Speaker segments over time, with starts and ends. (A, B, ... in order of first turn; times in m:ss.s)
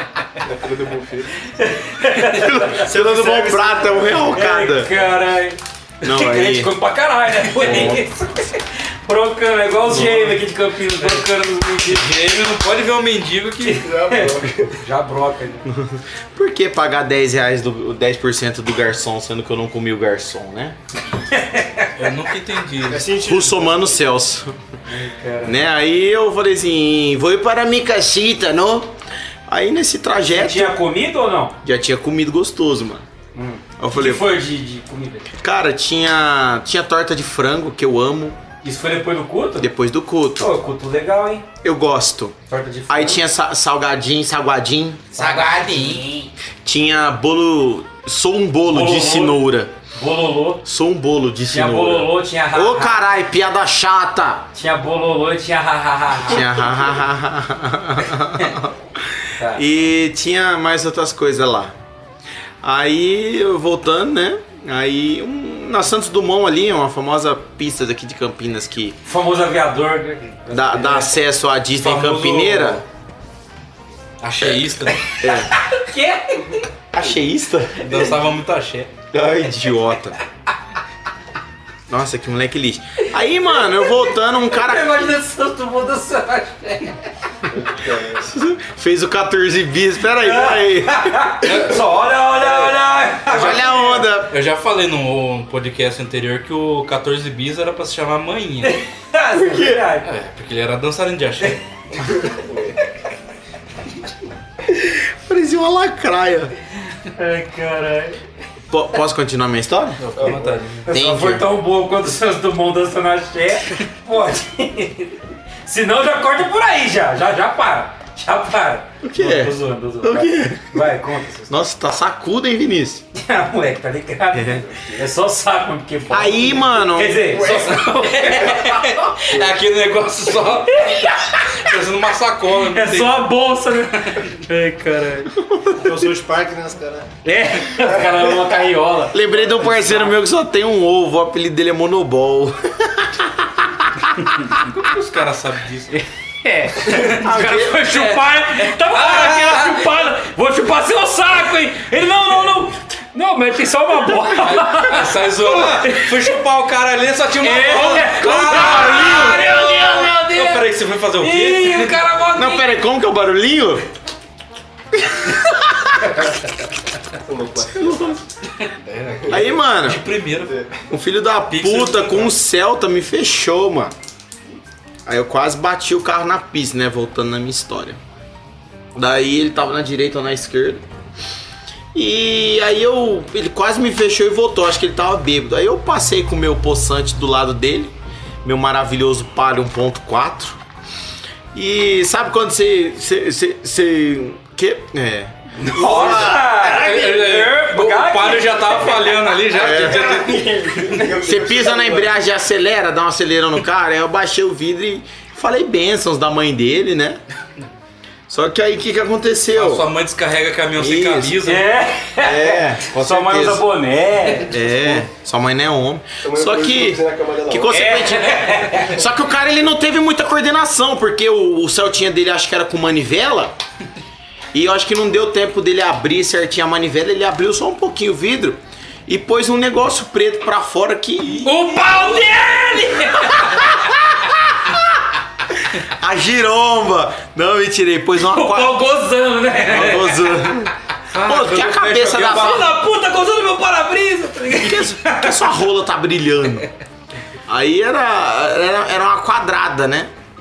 0:00.4-0:01.4 A
0:01.5-0:02.8 B
0:02.3-0:04.9 C
0:02.8-0:04.2 D
0:04.3-0:12.1 B
0:06.0-0:06.7 C
0:07.5-0:08.0 C
0:07.6-0:07.9 E
0:09.9-0:10.4 E
0:11.0-0:13.8 E
0:13.6-0:15.6 B
0:13.8-0:14.7 A
0:15.6-0:20.8 C
0:21.3-0:21.9 B
0:22.0-0:23.0 E
0:22.8-0:24.0 D
0:23.2-0:24.6 C
0:24.9-0:25.6 B
0:25.4-0:28.9 C
0:29.5-0:30.7 C
0:30.3-0:31.6 B
0:31.6-0:33.0 C
0:33.3-0:35.3 B
0:33.8-0:34.3 C
0:35.4-0:38.4 C
0:38.6-0:39.7 B
0:39.6-0:40.5 C
0:40.4-0:41.5 B
0:41.6-0:42.4 C
0:42.5-0:43.2 B
0:42.9-0:46.1 C
0:45.1-0:46.3 B
0:46.6-0:49.7 C
0:48.7-0:49.4 B
0:49.9-0:50.6 B
0:50.6-0:54.5 C
0:51.5-0:53.0 B
0:54.5-0:56.5 B
0:56.2-1:01.7 C
0:59.4-0:59.6 B
1:02.6-1:09.0 C
1:09.0-1:11.2 B
1:10.5-1:12.8 C
1:11.8-1:12.8 E
1:14.2-1:15.2 E
1:14.4-1:15.5 C
1:15.2-1:16.7 B
1:16.9-1:17.9 C
1:17.8-1:18.9 E
1:17.8-1:18.1 B
1:19.1-1:20.2 C
1:21.9-1:25.1 C
1:23.6-1:27.0 B
1:27.5-1:28.3 A
1:28.2-1:31.3 C
1:30.2-1:34.0 B
1:31.4-1:31.8 E
1:33.3-1:34.3 C
1:33.4-1:38.8 E
1:38.6-1:40.1 B
1:39.4-1:39.8 C
1:40.0-1:41.6 E
1:42.2-1:42.8 A
1:44.7-1:46.5 C
1:47.1-1:48.2 B
1:48.7-1:50.0 C
1:50.0-1:50.9 E
1:50.2-1:50.6 A
1:50.9-2:01.7 B
1:50.9-1:51.5 C
1:59.0-2:00.9 C
2:01.5-2:03.0 C
2:03.1-2:09.4 B
2:04.3-2:04.6 C
2:04.6-2:05.1 A
2:06.1-2:07.5 C
2:07.3-2:07.8 A
2:08.1-2:13.3 E
2:10.6-2:11.7 B
2:12.6-2:15.3 B
2:14.0-2:14.3 E
2:15.4-2:16.0 C
2:15.7-2:17.1 D
2:17.2-2:20.1 B
2:19.1-2:24.6 C
2:24.6-2:26.0 E
2:25.9-2:36.4 B
2:26.9-2:27.1 E
2:26.9-2:28.1 C
2:28.6-2:29.9 E
2:34.4-2:42.0 E
2:37.4-2:42.7 B
2:38.3-2:39.2 C
2:42.3-2:43.8 C
2:45.2-2:46.2 C
2:47.2-2:48.2 A
2:47.7-2:48.2 C
2:48.6-2:50.5 E
2:49.3-2:50.0 C
2:50.4-2:50.7 A
2:50.9-2:53.9 C
2:51.5-2:52.3 E
2:55.0-2:58.0 C
2:58.9-3:00.8 C
3:01.9-3:10.6 C
3:11.5-3:16.4 C
3:15.6-3:19.4 B
3:15.8-3:16.5 D
3:15.9-3:21.1 E
3:19.5-3:20.2 C
3:19.8-3:21.4 D
3:20.7-3:22.2 A
3:21.2-3:27.2 C
3:28.3-3:29.9 C
3:29.5-3:31.7 E
3:30.8-3:31.4 C
3:31.4-3:34.6 B
3:32.2-3:33.6 C
3:34.5-3:43.5 C
3:36.2-3:38.0 A
3:37.7-3:39.0 B
3:44.5-3:51.5 C
3:51.4-3:53.8 B
3:51.8-3:52.5 E
3:53.2-3:55.0 C
3:55.8-3:58.8 C
3:58.2-4:00.5 B
3:59.6-4:02.8 C
4:01.1-4:02.7 E
4:02.1-4:05.6 B
4:04.5-4:06.7 C
4:07.5-4:10.1 C